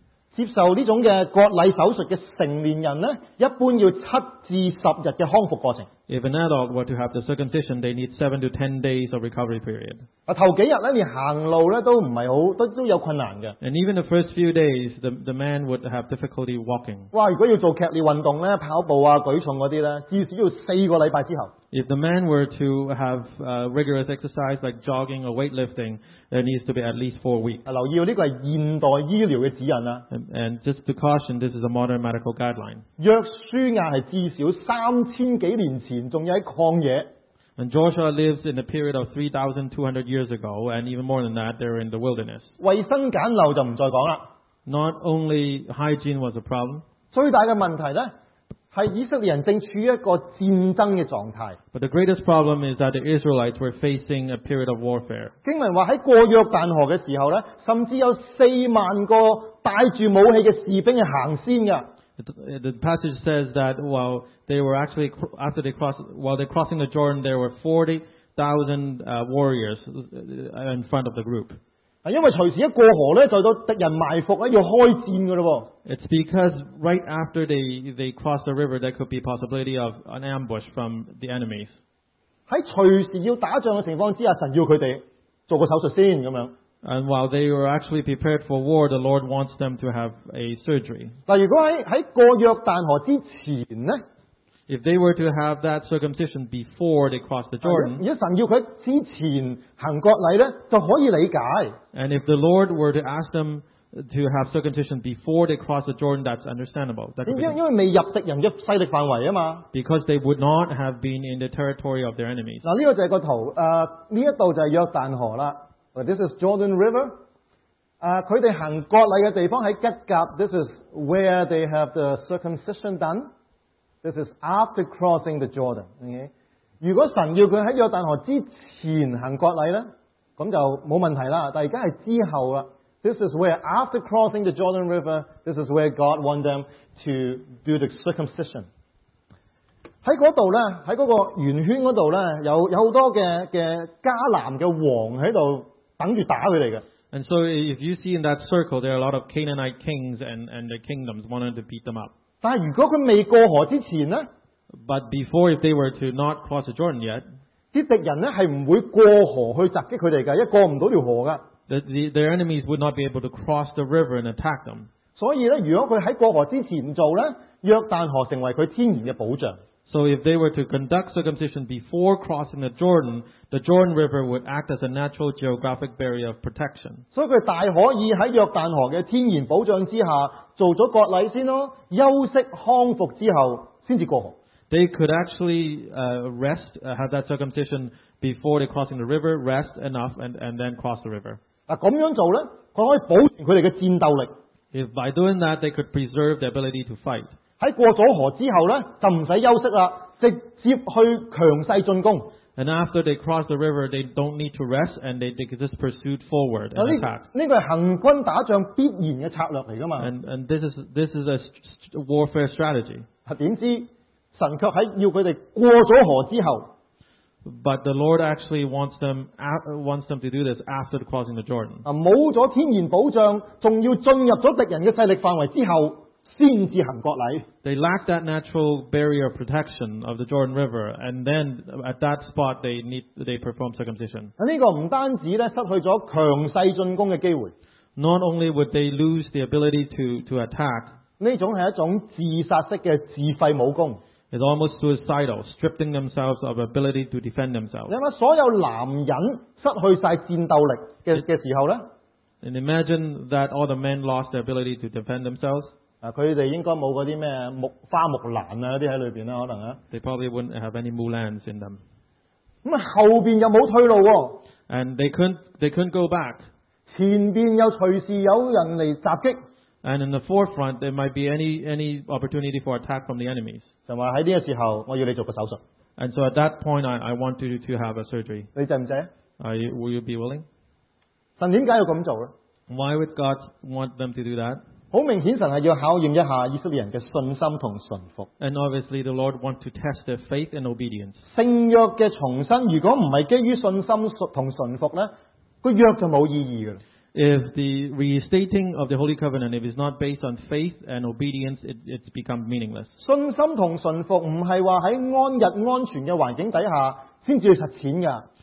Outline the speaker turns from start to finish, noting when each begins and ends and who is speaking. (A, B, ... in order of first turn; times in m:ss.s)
0:00.3-0:05.9 A
0:06.1-0:10.0 B
0:10.3-0:13.6 A
0:13.6-0:17.1 B
0:17.1-0:21.5 A
0:21.7-0:27.6 B
0:27.7-0:30.1 A
0:30.1-0:32.8 B
0:33.0-0:37.1 A
0:37.6-0:42.5 B
0:42.6-0:44.3 A
0:44.7-0:46.8 B
0:47.1-0:48.1 A
0:48.7-0:51.6 A
0:51.7-0:55.3 B
0:55.4-1:01.9 A
1:02.2-1:11.6 B
1:12.0-1:15.7 A
1:15.9-1:21.8 B
1:22.5-1:26.5 A
1:26.8-1:31.2 B
1:31.3-1:34.0 A
1:34.7-1:38.0 B
1:37.6-1:41.8 A
1:41.9-1:47.6 B
1:47.2-1:49.7 A
1:49.7-1:52.6 B
1:52.6-1:57.2 A
1:58.0-2:03.3 A
2:04.0-2:18.7 A
2:20.0-2:26.8 A
2:27.1-2:32.1 B
2:32.4-2:34.3 A
2:34.8-2:37.2 B
2:37.7-2:41.4 A
2:41.7-2:44.9 B
2:45.2-2:49.6 A
2:49.9-2:57.0 B
2:57.1-3:04.4 A
3:04.7-3:11.4 B
3:11.7-3:14.3 A
3:14.7-3:17.3 B
3:17.6-3:22.3 A
3:22.6-3:27.3 B
3:26.8-3:30.1 A
3:30.0-3:33.1 B
3:33.3-3:36.7 A
3:37.4-3:41.8 B
3:41.8-3:47.5 A
3:47.6-3:54.3 B
3:54.4-3:57.5 A
3:58.0-4:00.9 B
4:01.2-4:04.0 A
4:04.3-4:07.9 B
4:07.9-4:11.9 A
4:12.4-4:15.7 B
4:16.0-4:19.8 A
4:19.9-4:21.8 B
4:22.6-4:24.4 A
4:24.7-4:26.5 B
4:26.9-4:29.4 A
4:29.8-4:33.7 B
4:33.9-4:35.6 A
4:36.0-4:38.5 B
4:38.6-4:39.1 A
4:39.4-4:40.4 B
4:41.4-4:42.3 A
4:42.7-4:44.6 B
4:44.9-4:48.3 A
4:48.4-4:51.2 B
4:51.3-4:55.1 A
4:55.6-4:56.8 A
4:57.1-5:02.9 B
5:03.0-5:08.3 A